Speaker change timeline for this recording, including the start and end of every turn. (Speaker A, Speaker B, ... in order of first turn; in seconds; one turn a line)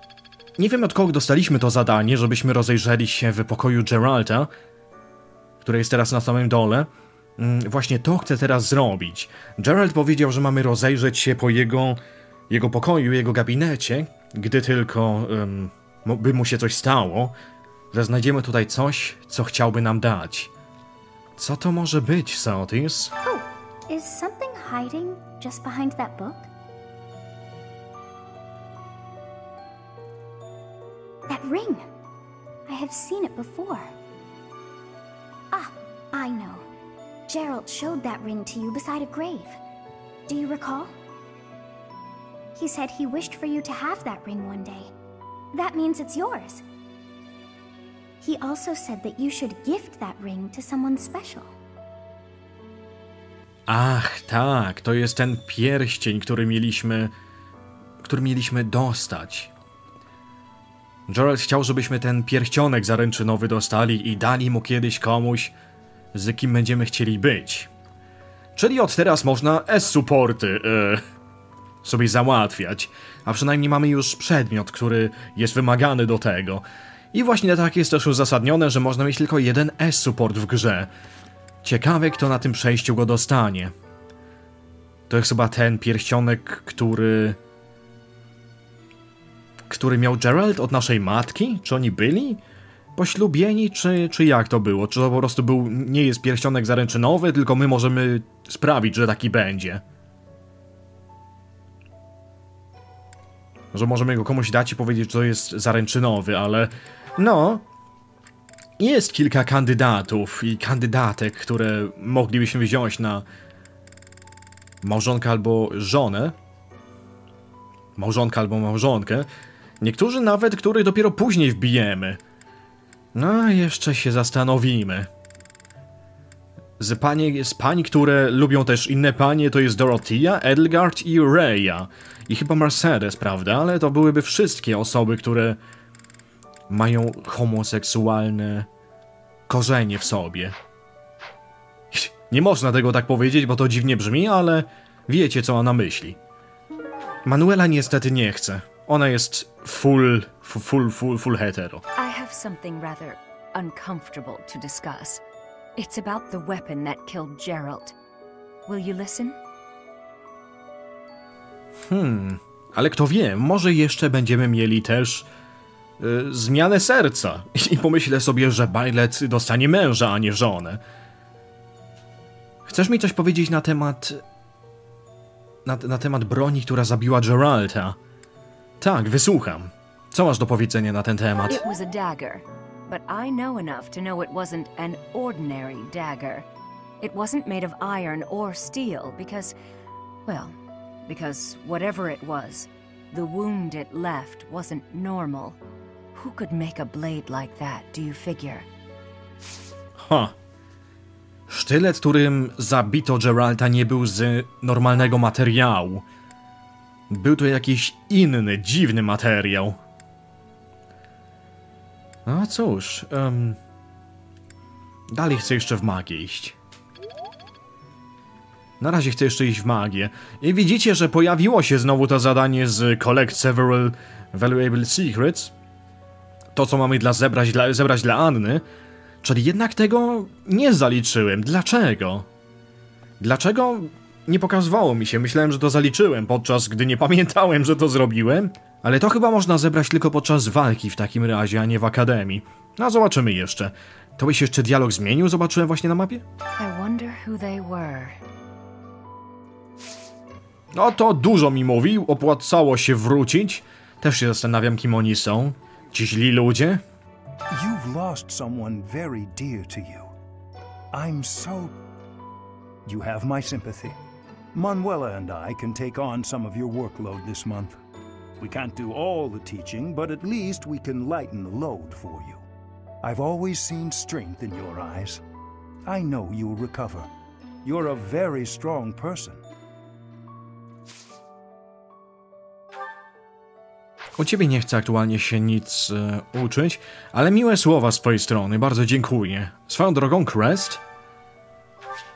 Speaker A: 0.6-4.5
Speaker A: 5.6-17.3
Speaker A: 17.9-20.5
Speaker A: 21.4-23.1
Speaker B: 23.2-26.5
Speaker B: 31.3-31.9
Speaker B: 32.7-33.9
Speaker B: 35.5-36.6
Speaker B: 37.3-39.6
Speaker B: 40.3-41.0
Speaker B: 42.5-44.9
Speaker B: 45.5-46.6
Speaker B: 48.2-51.5
Speaker A: 53.7-57.1
Speaker A: 58.0-59.5
Speaker A: 61.1-65.5
Speaker A: 66.1-67.7
Speaker A: 68.5-71.0
Speaker A: 71.8-80.9
Speaker A: 81.6-83.7
Speaker A: 85.1-87.4
Speaker A: 89.7-92.4
Speaker A: 93.0-99.8
Speaker A: 103.7-107.6
Speaker A: 108.8-113.2
Speaker A: 114.8-116.3
Speaker A: 118.0-119.3
Speaker A: 119.8-122.2
Speaker A: 123.1-125.1
Speaker A: 126.8-135.6
Speaker A: 136.7-138.7
Speaker A: 139.5-140.6
Speaker A: 141.9-146.2
Speaker A: 147.2-151.8
Speaker C: 151.9-155.2
Speaker C: 155.8-157.9
Speaker C: 158.7-159.4
Speaker A: 161.9-165.3
Speaker A: 166.0-170.8
Speaker A: 172.7-174.2
Speaker A: 175.6-178.0
Speaker A: 178.8-181.6
Speaker C: 181.5-186.4
Speaker C: 187.0-189.5
Speaker C: 190.2-195.6
Speaker C: 196.1-198.7
Speaker A: 200.0-200.3
Speaker A: 201.5-206.0
Speaker A: 207.1-209.8
Speaker A: 212.2-213.6
Speaker A: 215.1-216.5
Speaker A: 218.8-225.5
Speaker A: 226.5-228.6
Speaker A: 229.2-232.3
Speaker A: 233.2-246.2
Speaker C: 246.6-248.2
Speaker A: 250.7-256.8
Speaker D: 257.5-260.1
Speaker D: 260.9-261.7
Speaker D: 262.9-264.0
Speaker D: 264.5-267.8
Speaker D: 268.4-272.4
Speaker D: 273.0-275.2
Speaker D: 275.8-277.1
Speaker D: 277.6-279.4
Speaker A: 284.2-290.8